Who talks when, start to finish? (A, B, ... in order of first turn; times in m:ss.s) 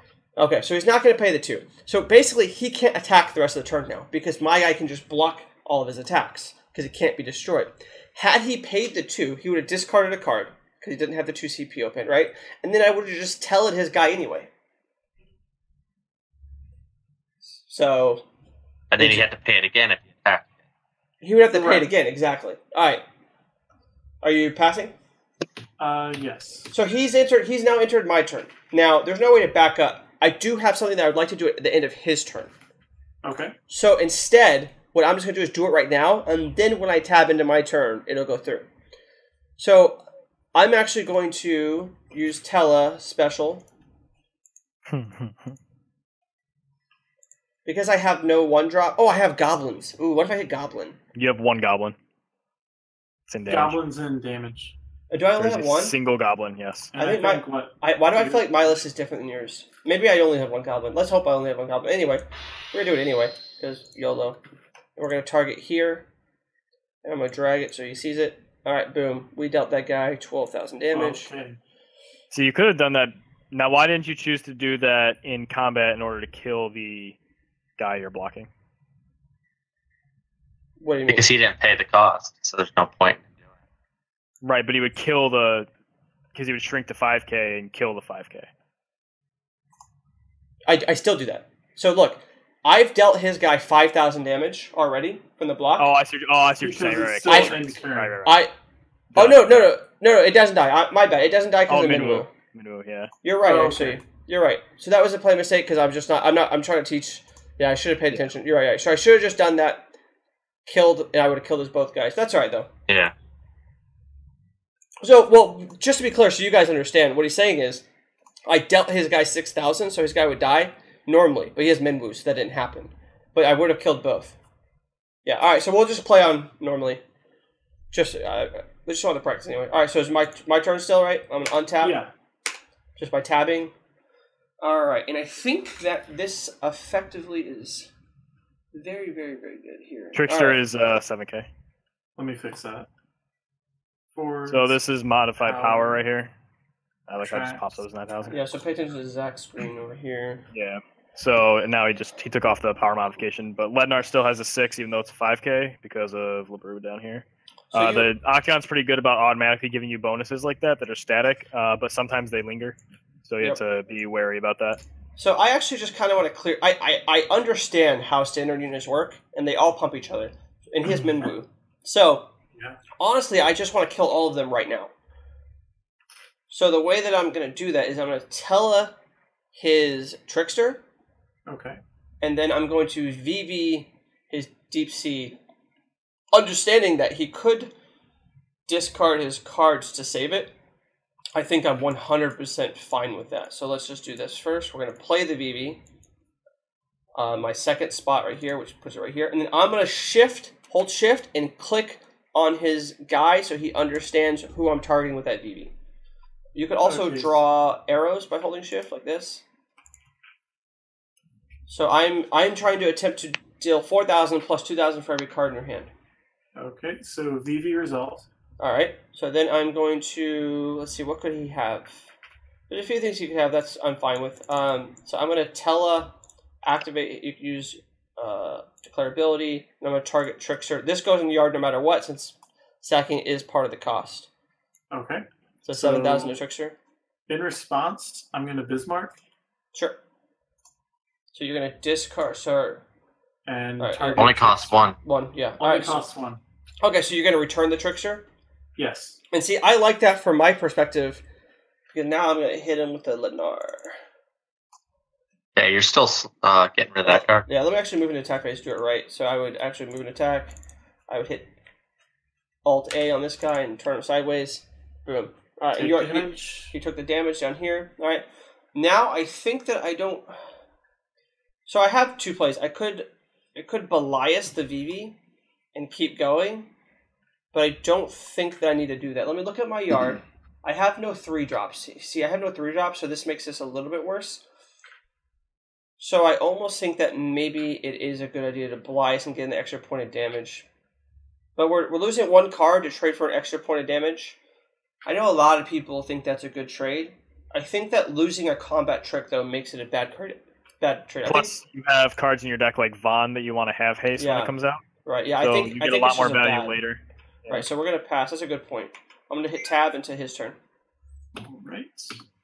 0:00.4-0:14.5 A
0:17.6-0:18.2 A
0:18.9-0:20.5 B
0:19.0-0:19.2 A
0:21.2-0:23.0 A
0:21.5-0:21.9 C
0:24.2-0:24.9 A
0:25.8-0:26.7 C
0:26.7-0:32.5 A
0:33.2-0:33.6 C
0:33.7-0:38.7 A
0:39.6-0:40.0 A
0:40.5-0:43.6 A
0:44.9-0:45.5 D
0:47.6-0:51.0 A
0:51.1-0:52.0 D
0:53.3-0:53.8 D
0:53.5-0:54.8 C
0:55.1-0:56.0 A
0:55.4-0:56.9 D
0:56.9-0:58.8 C
0:57.0-1:04.4 A
1:05.0-1:06.1 A
1:07.0-1:11.3 A
1:10.9-1:11.6 C
1:12.3-1:17.2 D
1:17.8-1:18.5 D
1:20.8-1:21.3 A
1:21.1-1:23.3 B
1:24.4-1:25.7 D
1:26.3-1:28.5 D
1:30.6-1:35.9 A
1:35.8-1:38.4 D
1:36.6-1:38.2 C
1:37.3-1:37.6 A
1:38.2-1:38.5 A
1:39.1-1:39.7 D
1:39.1-1:42.3 A
1:41.7-1:43.1 D
1:43.2-1:49.9 A
1:43.4-1:44.0 C
1:50.6-1:52.7 A
1:52.9-1:53.1 B
1:55.0-1:57.8 A
1:58.4-2:04.4 A
2:05.2-2:07.0 A
2:07.9-2:12.0 A
2:11.8-2:12.1 C
2:13.0-2:13.7 A
2:14.6-2:17.9 A
2:18.7-2:20.6 A
2:20.1-2:21.5 D
2:22.2-2:22.9 C
2:24.1-2:24.8 C
2:24.5-2:26.3 D
2:25.4-2:26.0 C
2:27.1-2:28.4 D
2:27.2-2:27.7 C
2:28.3-2:30.4 A
2:30.5-2:44.8 D
2:37.7-2:38.1 A
2:45.2-2:52.3 A
2:52.5-2:52.8 C
2:53.0-2:54.9 A
2:56.5-2:59.0 A
2:59.5-3:00.8 A
3:01.5-3:01.8 C
3:02.2-3:05.4 A
3:06.3-3:07.7 A
3:08.7-3:10.5 A
3:11.3-3:15.8 A
3:17.1-3:25.7 A
3:26.5-3:29.4 A
3:26.8-3:27.4 C
3:31.7-3:35.9 A
3:36.6-3:38.3 C
3:38.6-3:42.0 A
3:42.7-3:54.3 A
3:54.9-3:56.3 C
3:55.6-3:56.8 A
3:57.3-3:59.2 C
3:59.7-4:00.0 A
4:01.3-4:02.8 A
4:03.4-4:04.8 C
4:03.8-4:04.4 A
4:04.2-4:05.0 B
4:05.0-4:06.0 A
4:05.6-4:06.4 C
4:06.8-4:08.3 A
4:08.8-4:09.2 C
4:09.3-4:11.2 A
4:11.9-4:13.9 A
4:15.6-4:17.4 B
4:17.0-4:20.6 A
4:21.1-4:21.5 A
4:22.6-4:30.4 A
4:25.8-4:26.7 C
4:31.6-4:35.2 A
4:35.7-4:36.7 A
4:37.5-4:44.4 A
4:46.0-4:50.7 A
4:51.6-4:54.4 A
4:55.0-5:01.5 A
5:01.2-5:04.8 D
5:04.2-5:04.5 A
5:05.0-5:06.8 A
5:05.4-5:07.6 D
5:07.5-5:10.6 A
5:11.4-5:12.2 C